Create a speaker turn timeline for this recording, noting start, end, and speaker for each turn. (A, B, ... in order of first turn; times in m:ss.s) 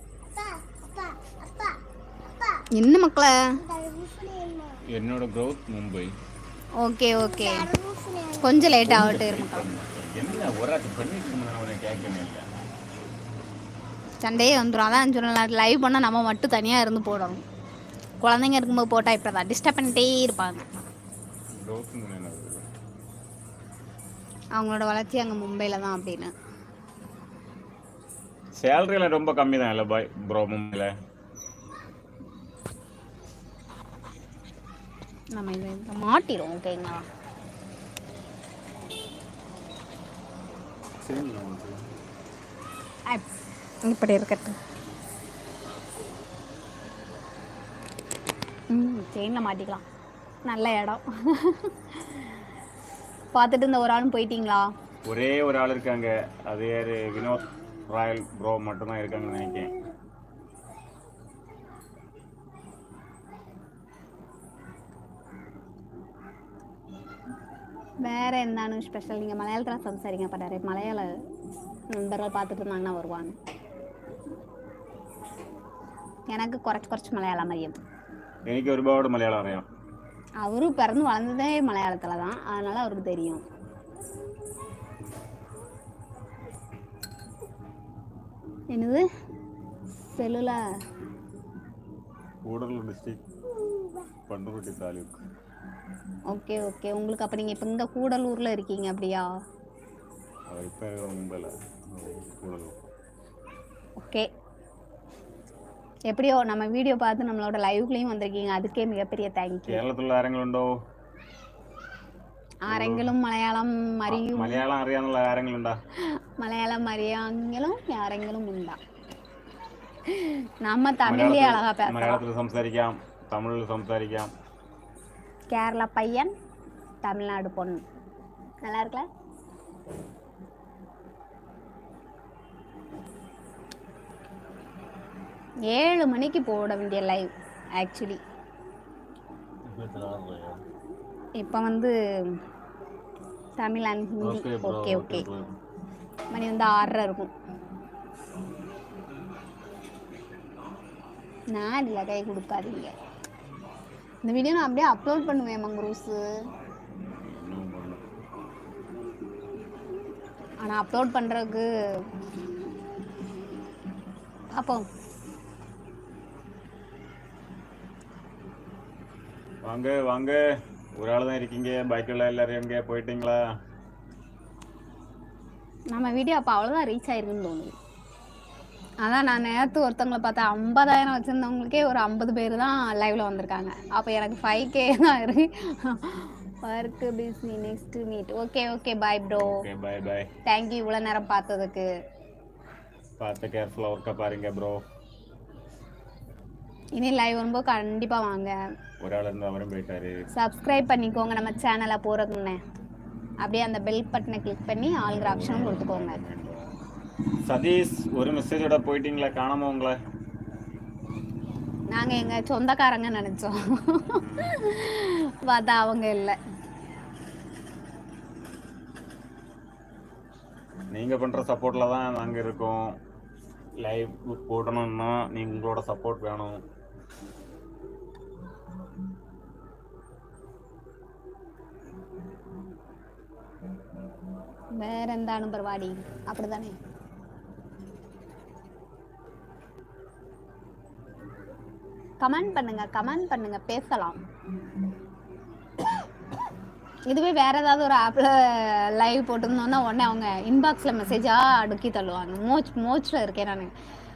0:00.3-0:02.6 A
0:02.7-0:03.6 B
0:03.6-0:04.8 A
0:04.9-0:06.1 C
0:06.8-0:07.7 B
0:07.2-0:08.8 A
0:08.4-0:09.7 B
0:08.8-0:12.5 C
0:14.2-0:17.4 B
0:18.2-0:20.7 B
0:21.6-0:22.6 C
0:24.6-0:26.3 B
0:28.6-0:31.0 C
0:35.3-0:37.1 B
0:41.0-0:41.9 C
0:43.8-0:44.6 B
0:48.7-0:49.8 B
0:50.5-0:52.2 B
0:53.3-0:54.7 B
0:55.1-0:59.7 C
1:08.0-1:11.1 B
1:11.9-1:13.4 B
1:16.3-1:17.8 B
1:18.5-1:19.7 C
1:20.4-1:23.4 B
1:28.7-1:29.0 B
1:30.1-1:30.6 B
1:32.5-1:33.2 C
1:33.5-1:34.1 A
1:34.3-1:35.2 C
1:36.3-1:39.3 B
1:40.5-1:42.8 C
1:44.0-1:44.3 B
1:46.1-1:49.8 B
1:49.7-1:50.8 C
1:52.7-1:54.6 B
1:52.7-1:53.1 C
1:54.1-1:55.8 C
1:56.0-1:58.8 B
2:00.1-2:02.2 B
2:01.1-2:04.3 C
2:05.5-2:06.3 B
2:07.0-2:07.8 B
2:08.6-2:09.1 B
2:15.7-2:18.2 B
2:19.7-2:20.6 C
2:21.4-2:22.4 B
2:23.6-2:25.2 B
2:24.2-2:25.6 C
2:26.3-2:27.3 B
2:31.5-2:32.9 B
2:34.2-2:36.3 B
2:37.2-2:38.1 C
2:40.6-2:42.1 B
2:44.5-2:44.9 B
2:49.6-2:50.4 C
2:51.0-2:53.4 C
2:55.9-2:57.7 B
2:59.0-3:09.6 B
3:09.4-3:10.3 C
3:10.4-3:11.9 B
3:13.2-3:14.8 C
3:17.0-3:18.6 B
3:19.0-3:20.2 C
3:20.3-3:22.6 B
3:23.4-3:26.2 B
3:25.1-3:26.7 C
3:27.5-3:30.0 C
3:31.9-3:36.4 B
3:34.2-3:34.6 C
3:40.9-3:43.0 C
3:43.8-3:46.6 C
3:54.7-3:56.8 B
4:02.2-4:04.2 B
4:07.1-4:13.7 B